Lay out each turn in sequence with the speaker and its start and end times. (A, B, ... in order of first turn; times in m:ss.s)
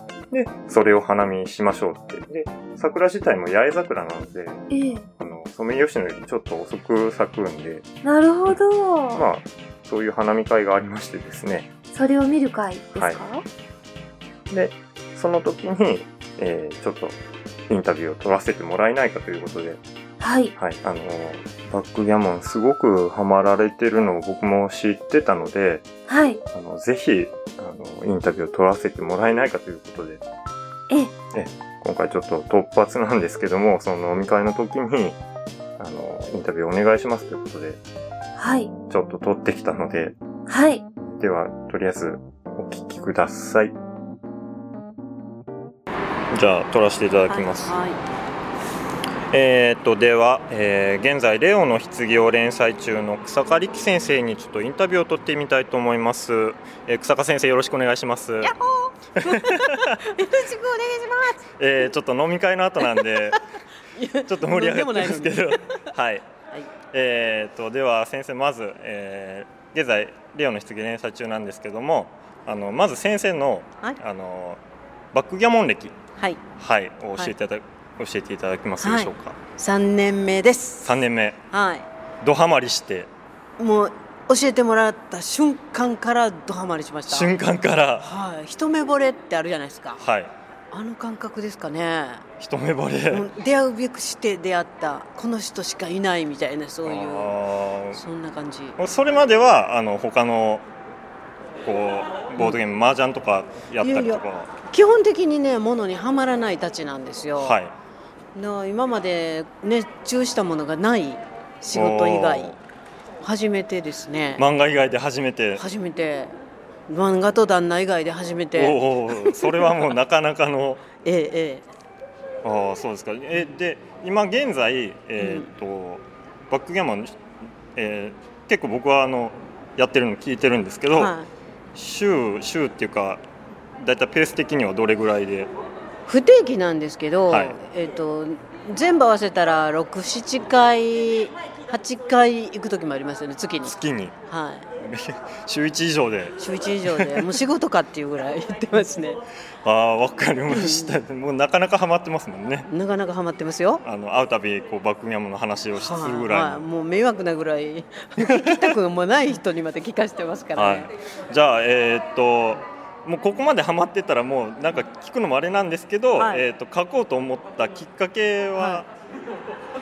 0:00.3-0:04.6 A
0:04.7-0:05.1 B
0:05.2-0:07.8 A
0:08.0-0:09.3 B
0:09.1-0:11.7 A
0:11.9-0:13.4 B
0:13.0-0:13.2 A
0:14.5-0:17.2 A
0:17.7-0:19.8 A
0:20.2-0:20.6 B
0:20.6-0:25.8 A
0:26.1-0:26.4 B
0:26.5-0:30.2 A
0:31.3-0:35.2 A
0:35.8-0:37.8 A
0:38.4-0:38.7 B
0:38.9-0:40.2 A
0:40.5-0:40.8 B
0:41.0-0:43.8 A
0:46.3-0:47.8 A
0:47.3-0:48.0 C
0:49.3-0:58.6 A
0:58.4-1:01.4 C
0:59.2-1:00.0 A
1:01.6-1:03.4 A
1:02.8-1:03.3 C
1:03.9-1:05.6 C
1:04.3-1:06.3 A
1:06.9-1:14.6 A
1:15.1-1:16.0 A
1:16.6-1:19.4 A
1:18.8-1:21.0 C
1:20.8-1:21.4 A
1:21.5-1:21.9 C
1:22.2-1:23.1 A
1:23.6-1:27.4 C
1:27.1-1:28.1 A
1:28.0-1:30.0 C
1:30.0-1:30.3 A
1:30.7-1:32.2 C
1:32.4-1:33.3 A
1:33.1-1:37.4 C
1:36.8-1:38.0 A
1:37.9-1:38.8 C
1:38.8-1:40.6 A
1:41.6-1:44.5 A
1:43.8-1:47.6 C
1:47.4-1:47.7 A
1:48.4-1:52.6 C
1:51.7-1:52.6 A
1:53.2-1:54.4 C
1:54.4-1:55.6 A
1:55.6-1:56.4 C
1:56.9-1:59.9 C
1:58.5-2:00.8 A
2:01.0-2:01.6 C
2:02.4-2:07.2 A
2:05.2-2:05.5 C
2:07.8-2:11.2 A
2:10.9-2:11.3 C
2:11.8-2:13.2 A
2:13.8-2:15.5 A
2:16.1-2:23.8 C
2:17.3-2:17.6 A
2:23.6-2:24.2 A
2:24.3-2:24.7 C
2:24.8-2:27.3 A
2:26.4-2:29.2 C
2:29.6-2:32.7 A
2:30.5-2:31.0 C
2:32.7-2:33.8 C
2:33.8-2:36.7 A
2:35.7-2:40.9 C
2:38.2-2:38.7 A
2:40.6-2:48.9 A
2:46.2-2:46.5 C
2:48.6-2:48.8 C